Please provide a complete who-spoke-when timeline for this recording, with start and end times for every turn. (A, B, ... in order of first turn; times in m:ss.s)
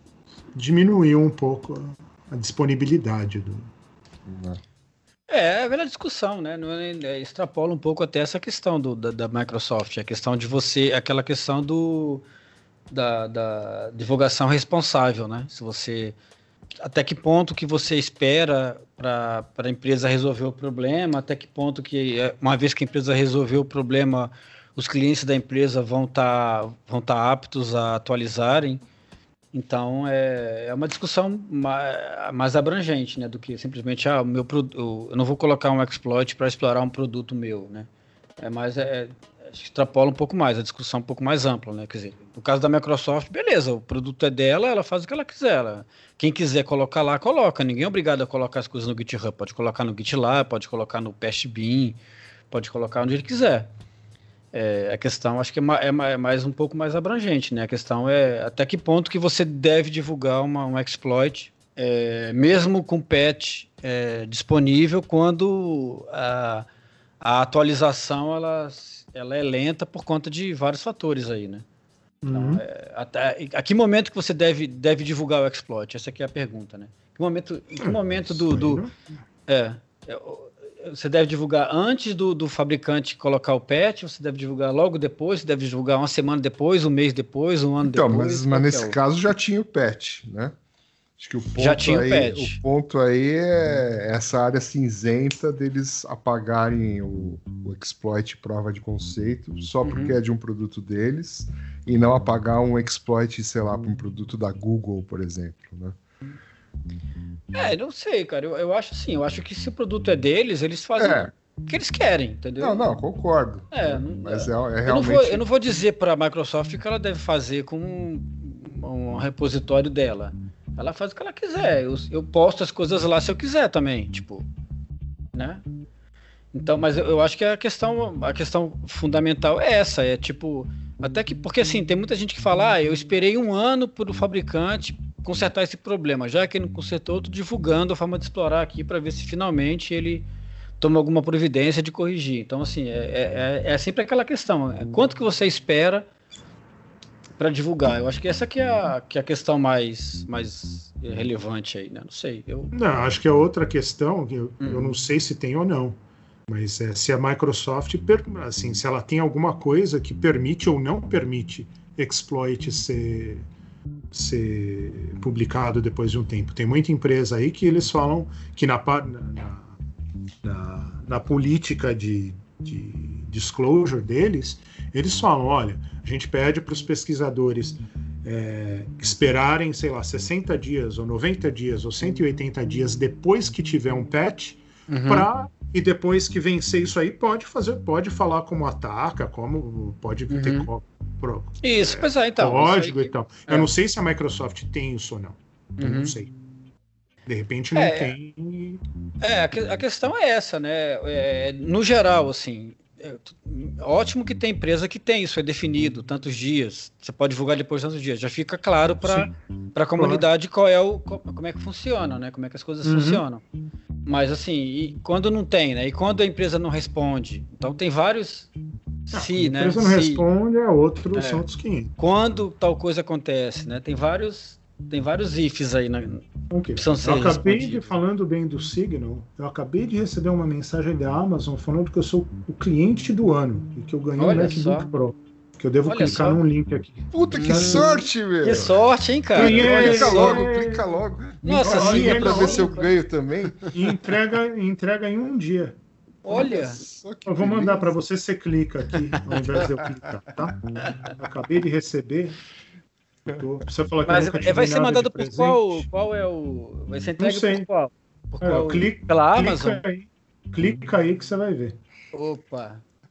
0:00.6-0:03.7 A
0:04.3-0:04.6 B
0:05.3-0:12.2 C
0:12.9-0:16.2 C
0:16.8-0:28.8 C
0:29.5-0:52.0 C
0:52.5-0:53.7 C
0:54.5-1:06.7 C
1:07.2-1:11.6 C
1:12.2-1:12.6 A
1:12.3-1:18.8 C
1:17.8-1:18.9 A
1:19.5-1:29.0 C
1:27.8-1:30.6 B
1:31.2-1:46.0 B
1:31.6-1:32.6 C
1:39.8-1:40.2 C
1:47.5-1:52.8 C
1:51.0-1:51.3 B
1:52.6-1:55.4 B
1:53.7-2:04.5 C
2:05.3-2:05.6 C
2:06.5-2:20.3 C
2:20.8-2:26.1 C
2:27.4-2:32.7 C
2:32.7-2:43.5 A
2:34.6-2:34.9 C
2:44.1-2:49.8 A
2:50.4-3:16.3 A
3:04.9-3:05.3 C
3:10.3-3:10.7 C
3:11.6-3:13.7 C
3:15.8-3:16.2 C
3:17.3-3:18.8 A
3:17.7-3:18.2 C
3:19.2-3:33.4 C
3:30.0-3:30.3 A
3:32.8-3:33.2 A
3:34.1-3:38.5 C
3:39.1-3:40.2 C
3:39.1-3:41.9 A
3:41.1-3:41.4 C
3:42.0-3:46.2 C
3:46.5-3:58.0 A
3:46.8-3:48.0 C
3:54.2-3:54.9 C
3:55.8-3:56.4 C
3:57.1-4:03.6 B
3:57.3-4:00.5 C
3:59.4-4:00.9 A
4:01.4-4:02.9 C
4:01.6-4:02.8 A
4:03.7-4:05.8 A
4:06.2-4:06.8 C
4:06.3-4:08.0 B
4:07.3-4:12.4 A
4:13.4-4:15.9 A
4:14.1-4:19.8 C
4:17.2-4:17.7 A
4:18.4-4:21.8 A
4:22.1-4:22.8 C